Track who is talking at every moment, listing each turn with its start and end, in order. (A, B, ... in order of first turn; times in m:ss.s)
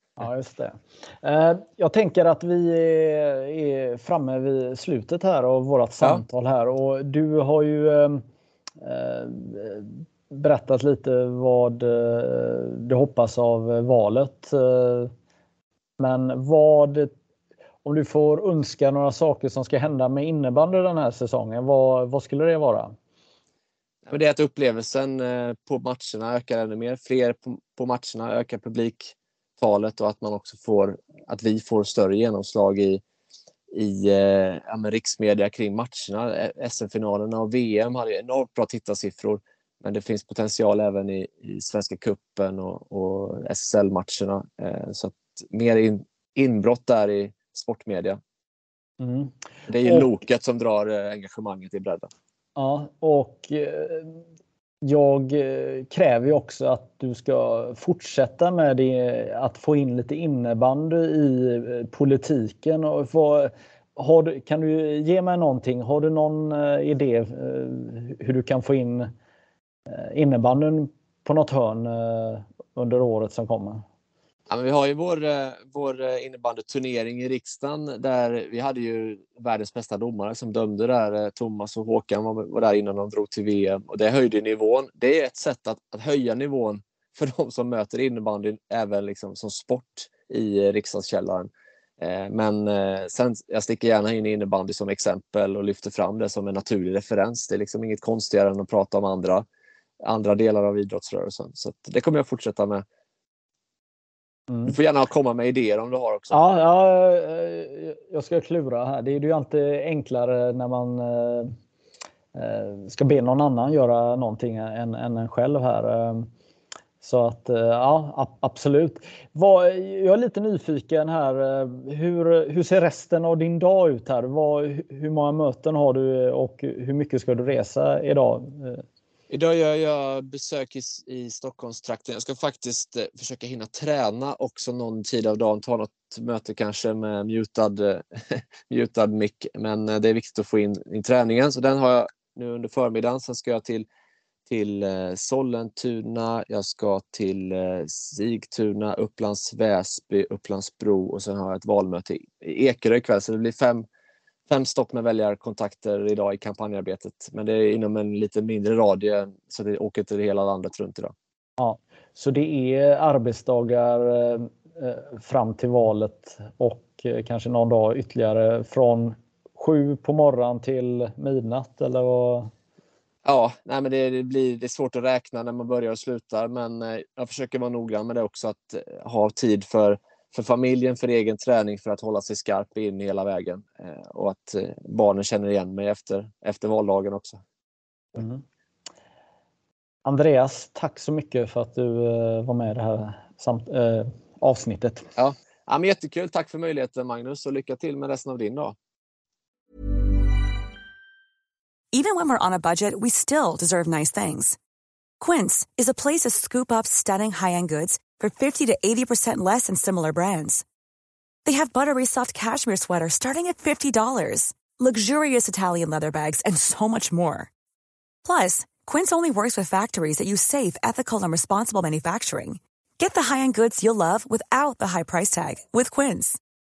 0:00.2-0:08.2 A
0:08.8-0:15.1 A
0:16.0-0:17.1 A
0:17.8-0:22.9 A
0:24.0-0:33.0 B
0:33.7-0:48.2 B
0:49.0-0:50.1 A
0:49.7-0:52.1 B
0:52.6-0:54.2 A
0:54.8-1:09.1 A
1:09.9-1:13.8 A
1:14.5-1:39.4 B
1:40.0-1:42.8 B
1:44.6-1:46.4 B
1:46.3-1:51.5 A
1:52.3-1:56.3 A
1:57.0-2:08.8 A
2:09.3-2:23.9 B
2:24.5-2:33.9 B
2:34.5-2:41.1 B
2:41.6-2:52.5 A
2:53.2-3:07.4 B
3:08.2-3:08.4 A
3:10.0-3:15.1 A
3:15.2-3:18.8 B
3:21.9-3:24.6 C
3:25.2-3:30.6 C
3:31.4-3:37.5 C
3:38.2-3:46.4 C